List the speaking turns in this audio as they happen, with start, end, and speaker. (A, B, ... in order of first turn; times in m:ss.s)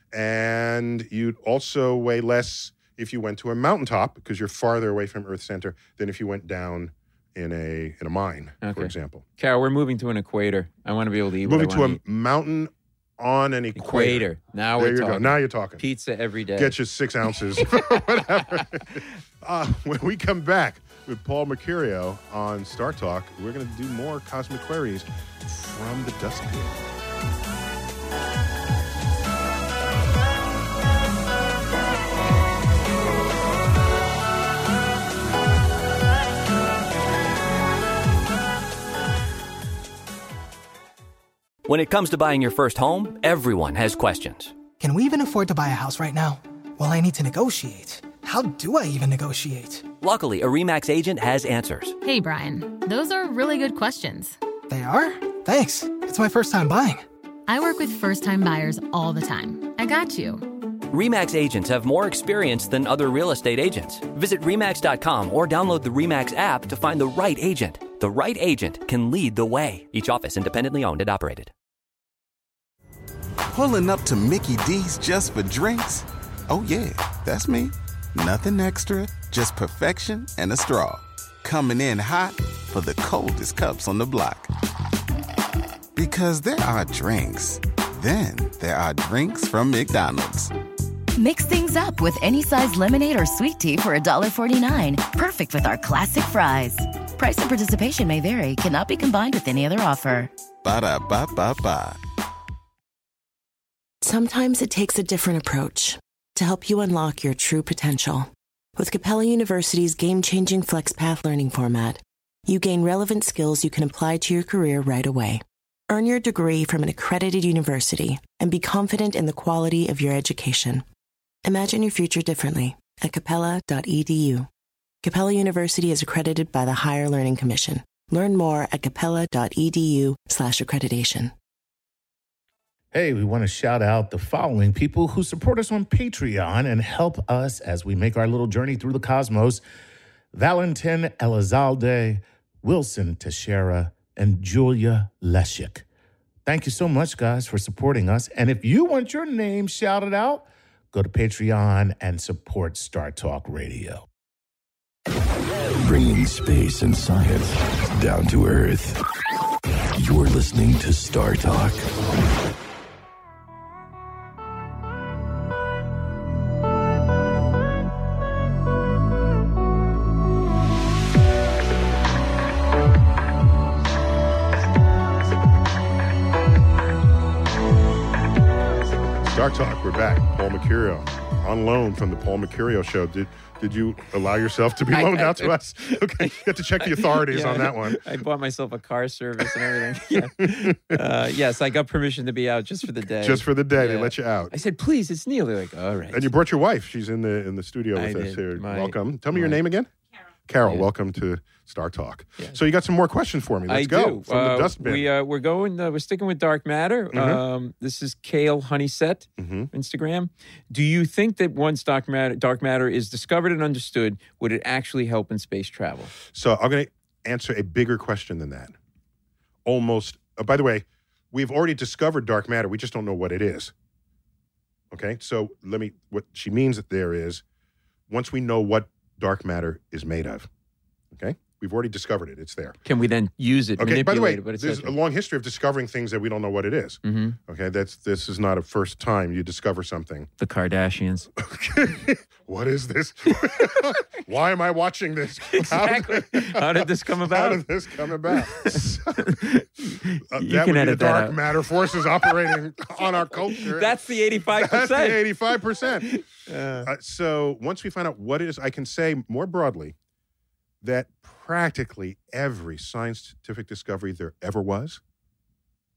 0:00.1-0:09.2 A
0:08.6-0:12.0 B
0:11.4-0:15.8 A
0:13.7-0:16.8 B
0:16.6-0:26.8 A
0:17.8-0:19.0 B
0:41.6-0:44.5 C
0:44.8-0:49.8 D
0:50.0-0:52.0 C
0:52.0-0:54.4 E
0:54.7-0:57.0 D
0:57.5-1:00.6 E
1:00.9-1:11.5 C
1:13.5-1:24.5 F
1:26.0-1:30.5 F
1:31.2-1:40.3 G
1:40.6-1:42.0 F
1:44.0-2:00.8 H
2:01.4-2:04.5 H
2:05.0-2:11.3 H
2:12.9-2:19.6 I
2:20.3-2:25.8 I
2:26.4-2:34.0 I
2:35.8-2:39.0 J
2:39.9-2:41.9 J
2:59.2-3:08.0 A
3:04.9-3:16.3 B
3:10.4-3:11.0 A
3:13.2-3:14.5 A
3:16.1-3:19.9 A
3:17.9-3:19.6 B
3:20.5-3:25.1 A
3:23.7-3:36.1 B
3:27.1-3:27.4 A
3:29.4-3:29.7 A
3:36.3-3:38.7 A
3:39.6-3:43.7 A
3:44.9-3:47.4 A
3:48.1-3:50.5 A
3:51.1-3:52.8 A
3:52.8-3:54.9 B
3:53.8-4:00.3 A
3:57.0-3:57.4 B
4:00.4-4:01.3 B
4:01.4-4:09.3 A
4:05.5-4:07.6 B
4:08.3-4:11.4 B
4:10.3-4:16.1 A
4:13.0-4:15.2 B
4:16.0-4:16.9 B
4:16.8-4:19.9 A
4:20.8-4:25.0 A